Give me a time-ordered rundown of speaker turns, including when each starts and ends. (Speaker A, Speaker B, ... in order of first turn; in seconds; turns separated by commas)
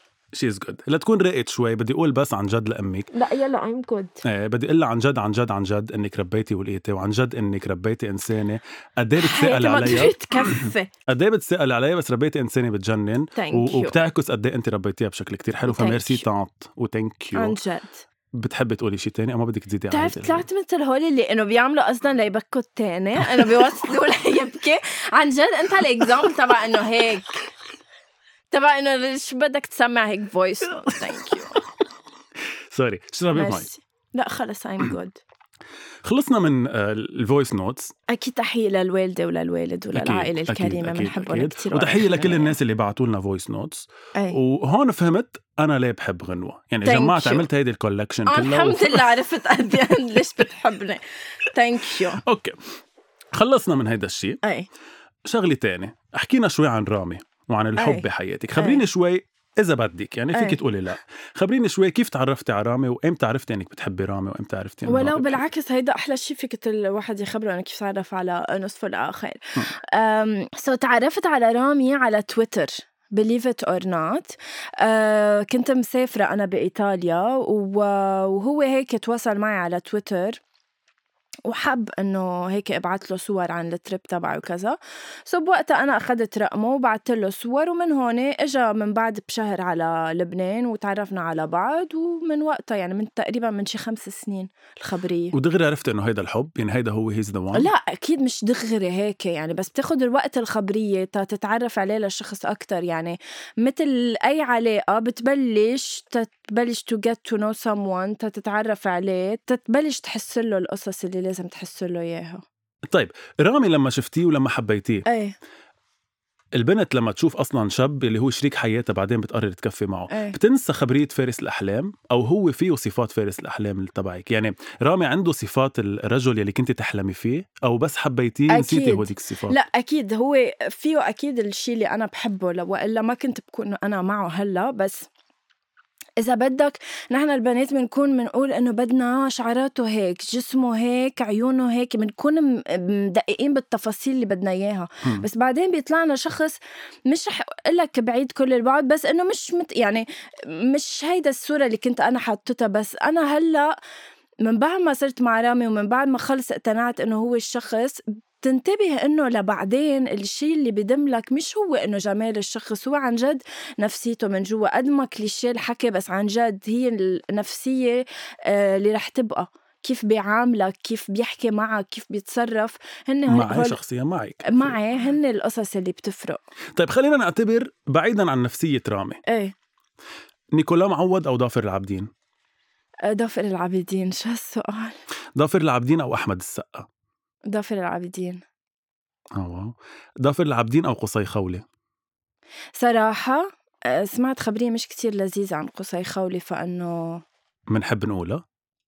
Speaker A: 0.3-3.1, Speaker B: 3.1-4.2, Speaker A: 4.2-17.6, Speaker B: 9.2-10.9, Speaker B: 13.3-14.0, Speaker B: 15.7-16.2, Speaker B: 17.4-18.1, Speaker A: 18.3-20.5, Speaker B: 19.9-27.4, Speaker B: 28.5-31.6, Speaker A: 32.7-33.7, Speaker B: 33.3-35.2, Speaker A: 36.0-37.9, Speaker B: 38.1-42.6, Speaker A: 39.9-49.1, Speaker B: 46.8-47.5, Speaker B: 48.3-52.2, Speaker A: 52.2-52.6, Speaker A: 53.3-54.4, Speaker B: 54.4-54.7, Speaker A: 55.3-65.4, Speaker B: 57.8-58.1, Speaker B: 58.6-58.8, Speaker B: 60.3-60.6, Speaker B: 64.8-69.4, Speaker B: 69.9-80.4, Speaker B: 81.5-95.3, Speaker A: 95.3-97.7, Speaker B: 97.5-112.4, Speaker A: 112.9-115.0, Speaker B: 115.1-115.3, Speaker A: 116.5-129.6, Speaker B: 120.1-120.4, Speaker B: 128.5-135.1, Speaker B: 136.2-153.7, Speaker B: 154.4-173.8, Speaker A: 173.3-174.8, Speaker B: 174.5-176.4, Speaker A: 176.8-179.2, Speaker B: 179.3-179.5, Speaker A: 180.5-182.1, Speaker B: 183.1-185.0, Speaker A: 185.4-186.9, Speaker B: 187.5-188.4, Speaker A: 189.3-191.6, Speaker B: 192.8-197.2, Speaker A: 197.7-198.4